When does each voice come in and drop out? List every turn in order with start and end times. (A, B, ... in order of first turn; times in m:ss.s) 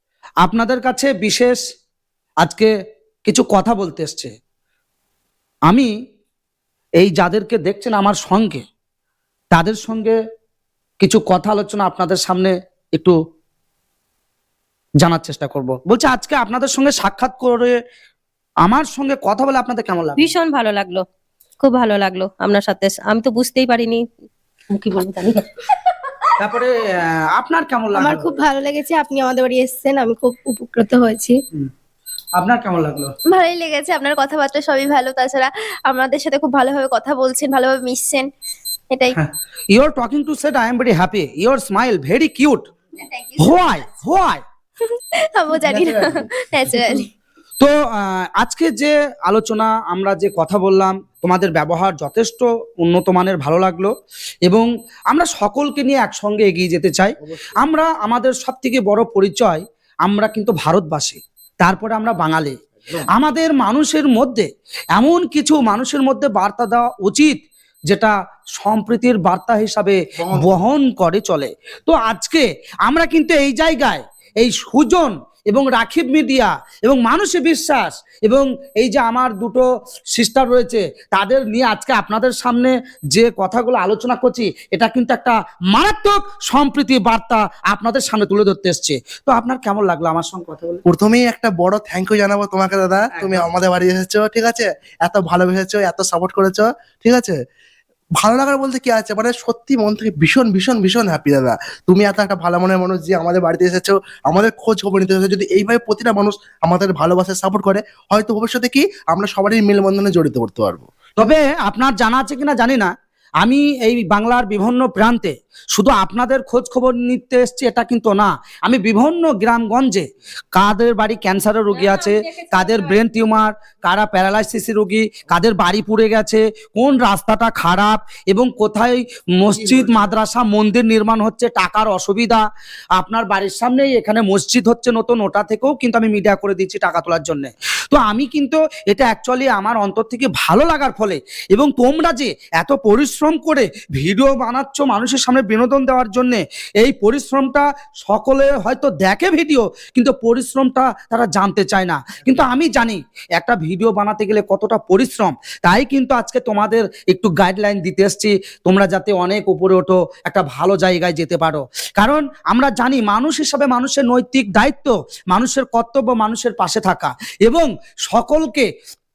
0:00.4-0:01.6 A
0:02.4-0:02.7 A
0:03.3-0:04.3 A
0:07.0-0:08.6 A
0:09.5-0:10.2 A
0:11.0-0:13.2 A
0:15.0-0:17.8 A
0:18.6-0:20.3 A
0:20.2-0:21.0 B
0:21.6-0:24.0 B
0:24.7-0:25.5 B
0:26.4-0:28.3 A
0:27.9-0:31.4 C
0:32.4-0:33.1 A
0:33.3-0:38.3 D
0:39.1-0:42.7 A
0:43.0-0:43.8 D
0:43.4-0:44.4 A
0:44.8-0:47.1 D
0:45.7-0:46.3 E
0:47.6-0:53.9 A
0:54.5-1:02.6 A
0:57.2-0:57.5 E
1:03.2-1:30.8 A
1:10.2-1:10.7 E
1:30.9-1:37.4 E
1:33.2-1:33.4 A
1:38.2-1:50.9 E
1:51.2-2:12.4 A
2:01.7-2:02.9 B
2:09.6-2:10.0 E
2:13.0-2:48.7 A